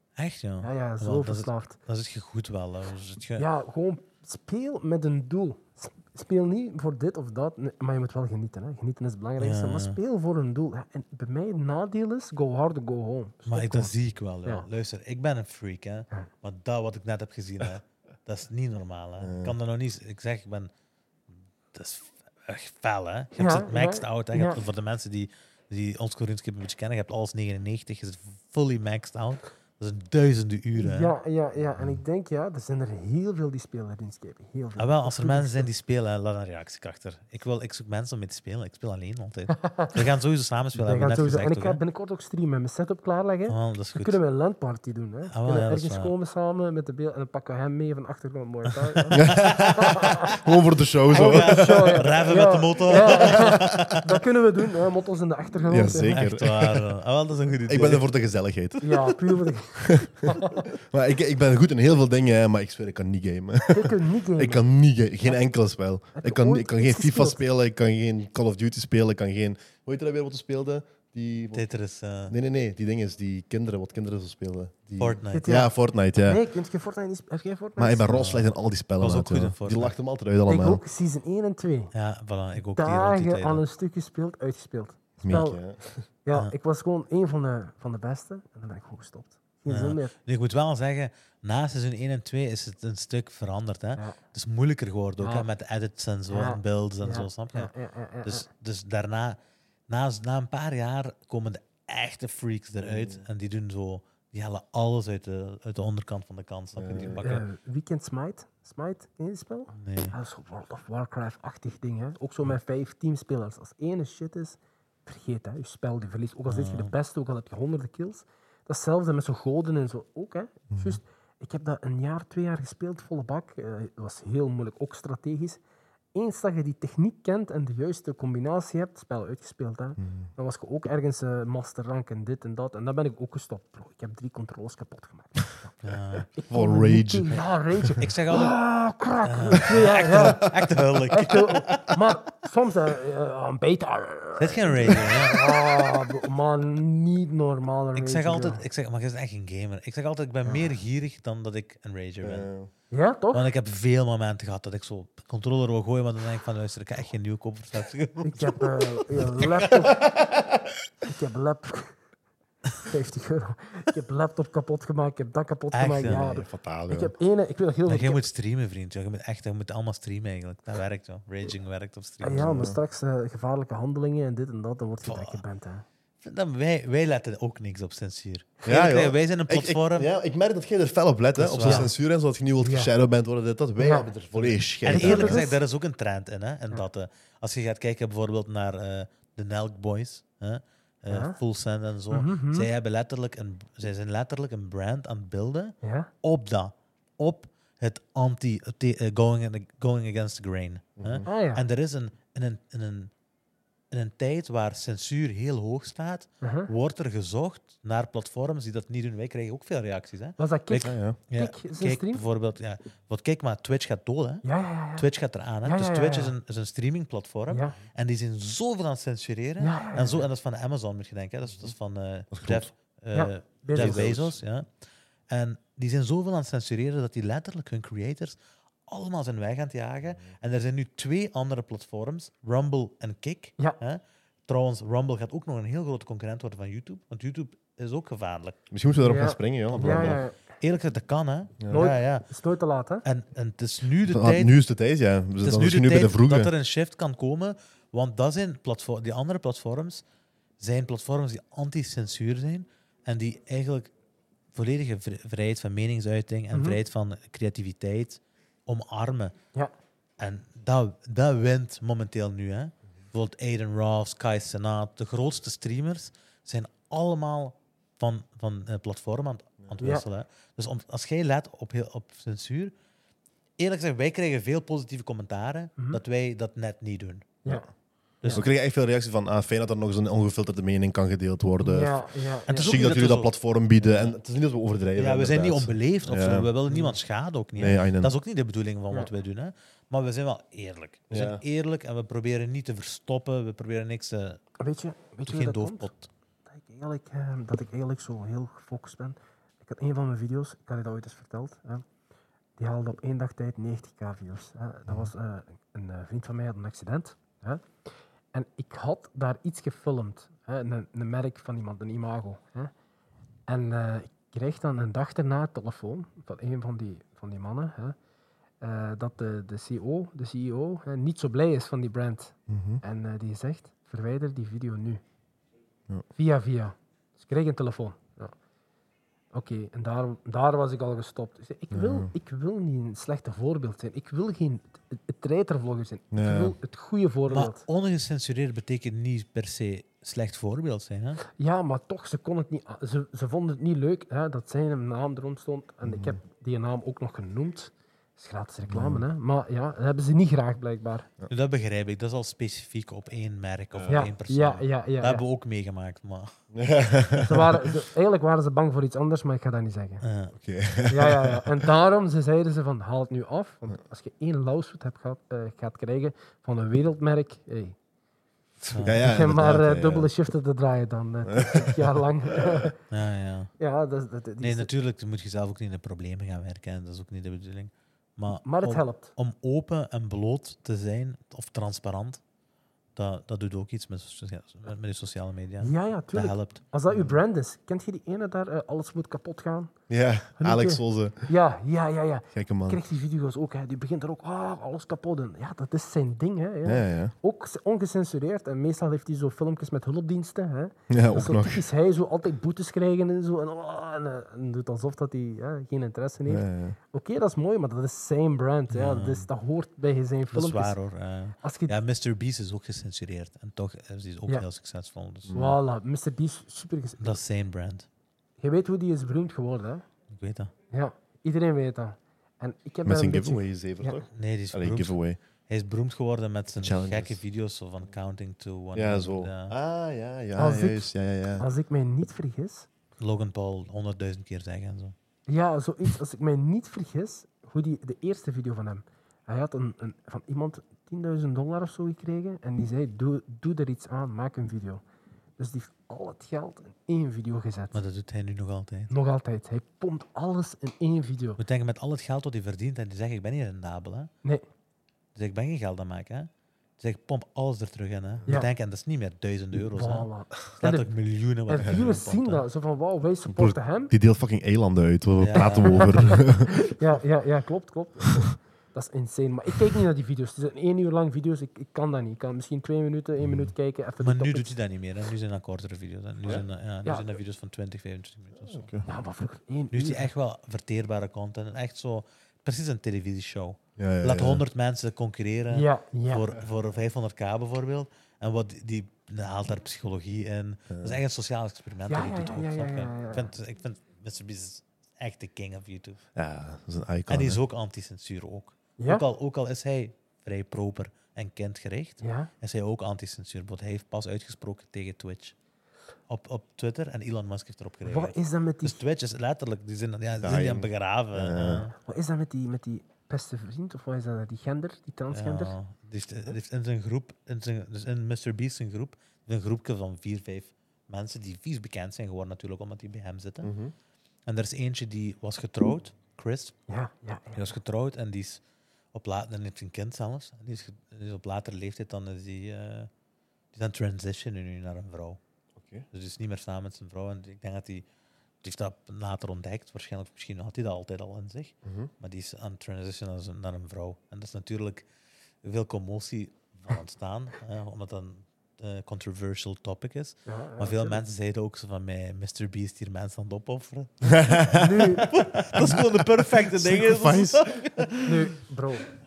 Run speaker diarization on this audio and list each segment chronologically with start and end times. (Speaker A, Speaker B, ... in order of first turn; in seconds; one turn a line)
Speaker A: 0.2-3.5
Speaker B: 0.6-1.8
Speaker B: 3.4-13.9
Speaker A: 9.4-10.0
Speaker A: 13.5-20.7
Speaker C: 19.2-19.6
Speaker A: 21.7-31.1
Speaker B: 23.4-24.6
Speaker B: 30.8-35.7
Speaker A: 34.8-41.8
Speaker B: 39.6-40.0
Speaker B: 40.8-50.3
Speaker A: 43.5-44.2
Speaker A: 45.3-46.1
Speaker A: 49.0-50.4
Speaker C: 49.1-52.0
Speaker A: 51.1-54.2
Speaker B: 51.1-56.2
Speaker C: 53.3-54.0
Speaker C: 55.7-56.9
Speaker A: 56.1-58.0
Speaker C: 57.7-59.2
Speaker B: 58.8-60.7
Speaker C: 59.8-71.6
Speaker B: 63.7-64.6
Speaker B: 66.2-67.4
Speaker A: 71.5-72.3
Speaker C: 72.3-76.4
Speaker A: 75.0-75.5
Speaker B: 75.3-78.2
Speaker C: 77.8-80.8
Speaker A: 78.1-80.0
Speaker B: 80.5-81.9
Speaker A: 81.9-83.6
Speaker B: 82.8-85.6
Speaker C: 85.2-86.0
Speaker B: 86.2-90.1
Speaker A: 89.7-97.7
Speaker B: 95.2-95.5
Speaker B: 96.3-98.5
Speaker A: 98.2-107.5
Speaker C: 102.8-103.2
Speaker C: 106.8-107.2
Speaker B: 107.2-125.6
Speaker A: 109.7-110.2
Speaker A: 116.5-116.9
Speaker C: 120.7-121.0
Speaker B: 126.1-135.7
Speaker C: 130.0-130.3
Speaker A: 135.8-136.3
Speaker B: 136.3-140.5
Speaker C: 136.5-137.9
Speaker A: 138.0-138.6
Speaker A: 139.2-142.0
Speaker B: 141.1-148.6
Speaker A: 144.4-145.4
Speaker A: 147.9-152.5
Speaker B: 150.4-150.7
Speaker C: 152.2-152.7
Speaker B: 152.9-153.4
Speaker A: 153.3-159.7
Speaker B: 158.2-160.0
Speaker B: 161.1-161.9
Speaker B: 162.8-168.2
Speaker A: 165.7-166.4
Speaker C: 166.1-167.1
Speaker A: 167.9-172.6
Speaker B: 172.2-175.9
Speaker C: 172.4-172.8
Speaker A: 175.0-175.4
Speaker A: 176.2-180.1
Speaker C: 178.7-185.4
Speaker A: 181.4-181.9
Speaker B: 182.6-182.9
Speaker B: 183.8-184.1
Speaker A: 184.4-203.1
Speaker B: 184.9-185.6
Speaker B: 191.1-191.4
Speaker B: 192.1-192.7
Speaker B: 195.8-196.1
Speaker C: 201.0-201.3
Speaker B: 201.2-201.6
Speaker A: 203.9-224.7
Speaker B: 206.4-206.7
Speaker B: 210.4-212.2
Speaker C: 210.8-211.2
Speaker B: 214.4-215.1
Speaker B: 215.6-216.3
Speaker B: 217.5-217.8
Speaker B: 219.6-220.3
Speaker C: 222.3-222.7
Speaker B: 223.1-224.1
Speaker C: 223.8-224.4
Speaker A: 225.3-228.4
Speaker A: 228.9-238.6
Speaker C: 238.7-240.2
Speaker B: 239.0-240.4
Speaker A: 239.7-242.3
Speaker C: 241.6-241.9
Speaker B: 241.7-243.1
Speaker A: 243.1-244.5
Speaker C: 244.0-246.5
Speaker A: 245.4-250.0
Speaker A: 250.6-253.9
Speaker A: 254.5-259.3
Speaker B: 256.5-256.8
Speaker A: 260.2-272.7
Speaker B: 269.8-270.1
Speaker A: 273.6-277.4
Speaker C: 278.3-286.5
Speaker B: 281.6-282.8
Speaker A: 282.5-284.1
Speaker A: 284.9-294.4
Speaker B: 286.7-287.0
Speaker C: 287.6-288.1
Speaker C: 291.1-291.4
Speaker B: 294.6-295.9
Speaker A: 295.3-296.1
Speaker B: 296.5-301.8
Speaker B: 302.6-307.6
Speaker B: 308.3-312.7
Speaker B: 313.5-317.9
Speaker B: 318.6-325.0
Speaker C: 322.5-322.8
Speaker B: 326.1-328.4
Speaker B: 329.3-337.6
Speaker C: 331.7-332.1
Speaker C: 336.1-336.6
Speaker A: 337.3-341.2
Speaker B: 341.3-351.1
Speaker C: 345.9-346.2
Speaker C: 348.7-349.1
Speaker A: 351.3-356.3
Speaker C: 353.7-354.1
Speaker B: 353.9-355.2
Speaker C: 356.5-357.7
Speaker B: 357.2-360.0
Speaker A: 360.0-360.4
Speaker C: 360.4-361.6
Speaker B: 360.9-367.8
Speaker A: 368.6-369.1
Speaker C: 368.8-370.1
Speaker B: 368.9-372.8
Speaker C: 371.3-371.9
Speaker A: 372.9-373.5
Speaker B: 373.6-374.7
Speaker A: 374.4-382.2
Speaker B: 378.4-379.1
Speaker A: 382.9-386.6
Speaker B: 385.6-389.7
Speaker C: 389.9-391.3
Speaker B: 390.4-410.8
Speaker C: 392.3-392.8
Speaker C: 396.7-397.1
Speaker C: 400.9-401.6
Speaker C: 406.3-406.8
Speaker A: 408.7-409.3
Speaker A: 410.3-415.3
Speaker B: 411.4-411.7
Speaker C: 415.3-415.6
Speaker B: 415.3-417.2
Speaker A: 417.0-417.9
Speaker B: 418.4-419.9
Speaker A: 420.1-420.5
Speaker B: 420.7-424.0
Speaker C: 422.9-425.2
Speaker A: 424.1-424.9
Speaker A: 425.5-429.6
Speaker C: 426.6-427.2
Speaker C: 428.8-431.5
Speaker B: 430.4-432.7
Speaker A: 433.0-434.9
Speaker B: 435.3-444.8
Speaker B: 445.4-447.8
Speaker A: 447.7-448.9
Speaker B: 448.9-451.4
Speaker A: 451.4-454.1
Speaker A: 455.1-462.4
Speaker B: 459.7-460.9
Speaker B: 461.5-463.9
Speaker C: 463.3-466.7
Speaker A: 465.2-466.1
Speaker B: 465.4-474.6
Speaker C: 473.2-473.5
Speaker A: 474.0-478.7
Speaker C: 478.4-478.9
Speaker B: 478.9-480.1
Speaker A: 479.7-496.0
Speaker C: 483.8-484.4
Speaker B: 485.5-486.3
Speaker C: 490.7-491.0
Speaker B: 491.9-493.3
Speaker C: 496.1-497.4
Speaker A: 497.1-505.4
Speaker B: 498.8-499.0
Speaker B: 502.0-502.3
Speaker A: 506.1-511.7
Speaker B: 507.8-508.8
Speaker C: 510.2-511.7
Speaker B: 511.4-515.5
Speaker A: 515.1-523.5
Speaker C: 523.4-523.7
Speaker A: 524.3-526.6
Speaker B: 526.7-527.5
Speaker A: 527.4-528.4
Speaker A: 528.9-532.9
Speaker A: 533.5-535.2
Speaker C: 535.6-535.9
Speaker A: 535.9-537.9
Speaker A: 538.4-544.9
Speaker C: 541.6-541.9
Speaker A: 545.4-558.2
Speaker B: 550.3-551.0
Speaker C: 554.2-557.9
Speaker B: 554.2-555.1
Speaker B: 558.0-558.9